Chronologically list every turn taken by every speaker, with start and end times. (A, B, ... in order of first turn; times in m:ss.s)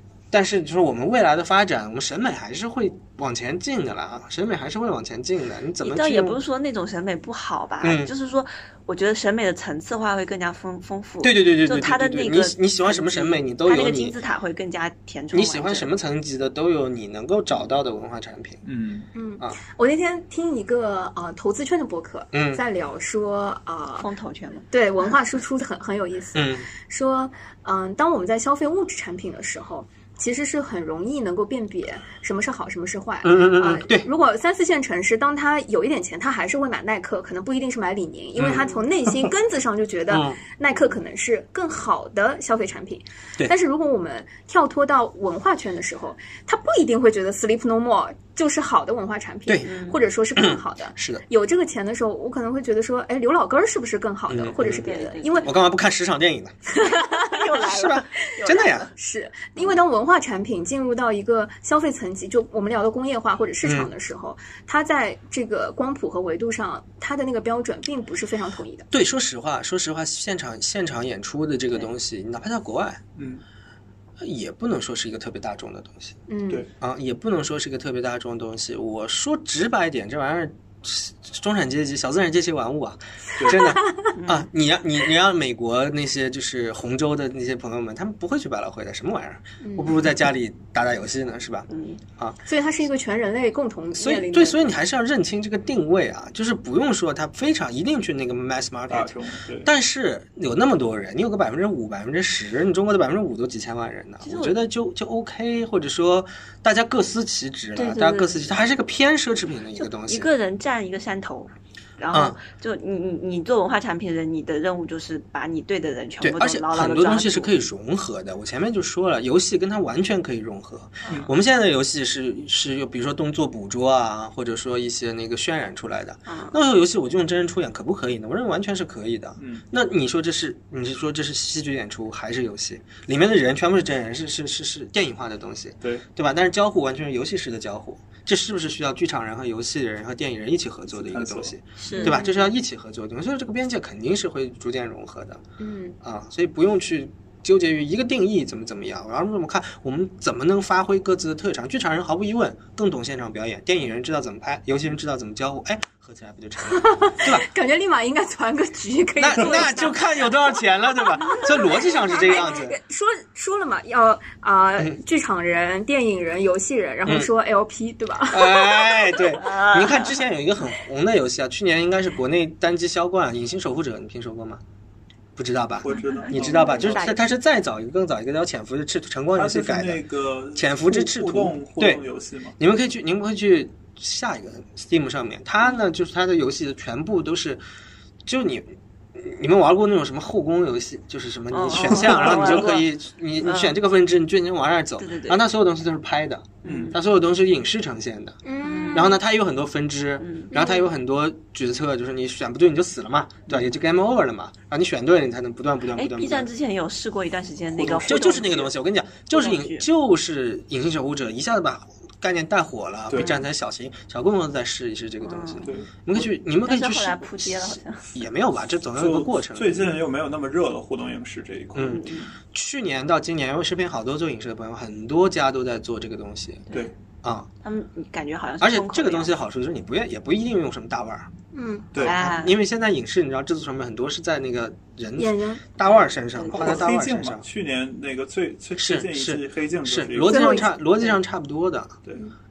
0:00.3-0:06.4 A
0:05.8-0:15.9 B
0:07.8-0:08.1 A
0:11.2-0:14.2 A
0:15.3-0:18.6 A
0:18.6-0:19.1 C
0:19.1-0:24.1 D
0:22.3-0:22.6 A
0:24.0-0:24.7 B
0:24.7-0:55.5 D
0:26.4-0:26.7 A
0:33.2-0:34.1 A
0:38.4-0:38.7 A
0:40.1-0:40.4 A
0:49.5-0:49.7 A
0:49.7-0:50.0 B
0:50.4-0:51.2 A
0:54.3-0:56.6 A
0:54.6-0:55.5 B
0:56.7-0:57.4 D
0:56.8-0:58.9 B
0:57.6-0:58.9 A
0:59.0-1:08.9 D
1:03.6-1:03.9 A
1:08.9-1:13.0 A
1:13.2-1:13.4 C
1:14.2-1:16.2 A
1:16.3-1:16.6 D
1:16.8-1:32.4 A
1:23.4-1:23.6 C
1:24.1-1:24.5 B
1:29.6-1:30.0 D
1:31.7-1:32.0 B
1:32.5-1:34.8 D
1:34.0-1:50.3 A
1:38.9-1:39.7 C
1:44.2-1:44.6 B
1:47.8-1:48.5 B
1:49.8-1:57.5 B
1:52.1-1:52.4 A
1:56.2-2:25.4 A
2:06.3-2:06.6 B
2:20.9-2:21.5 C
2:21.8-2:22.3 B
2:25.6-2:26.0 D
2:26.0-2:37.5 A
2:36.7-2:40.2 D
2:39.2-2:42.8 A
2:41.3-2:49.2 D
2:48.3-2:54.6 A
2:49.4-2:50.2 B
2:55.4-3:02.0 A
2:55.8-2:57.1 C
2:55.9-2:57.3 B
2:59.4-3:02.6 C
3:02.6-3:07.6 A
3:08.3-3:18.4 A
3:11.5-3:12.9 B
3:11.8-3:12.7 C
3:13.4-3:13.8 B
3:15.0-3:15.4 B
3:16.6-3:17.0 B
3:16.7-3:17.0 C
3:18.4-3:19.2 D
3:18.6-3:19.2 B
3:18.9-3:26.5 A
3:20.2-3:20.7 B
3:26.0-3:28.7 B
3:27.8-3:39.9 A
3:29.3-3:29.9 B
3:33.1-3:33.4 C
3:33.2-3:33.4 B
3:35.2-3:35.7 B
3:35.6-3:35.9 C
3:36.6-3:38.1 B
3:39.0-3:42.1 C
3:41.8-3:46.7 A
3:41.9-3:42.3 B
3:47.2-3:47.5 A
3:47.6-3:49.4 B
3:48.6-3:51.3 A
3:51.5-3:51.9 D
3:52.0-3:57.4 A
3:52.0-3:52.6 B
3:55.2-3:55.6 D
3:56.3-3:56.8 B
3:56.5-4:00.6 C
3:58.8-4:02.0 A
4:00.2-4:00.7 D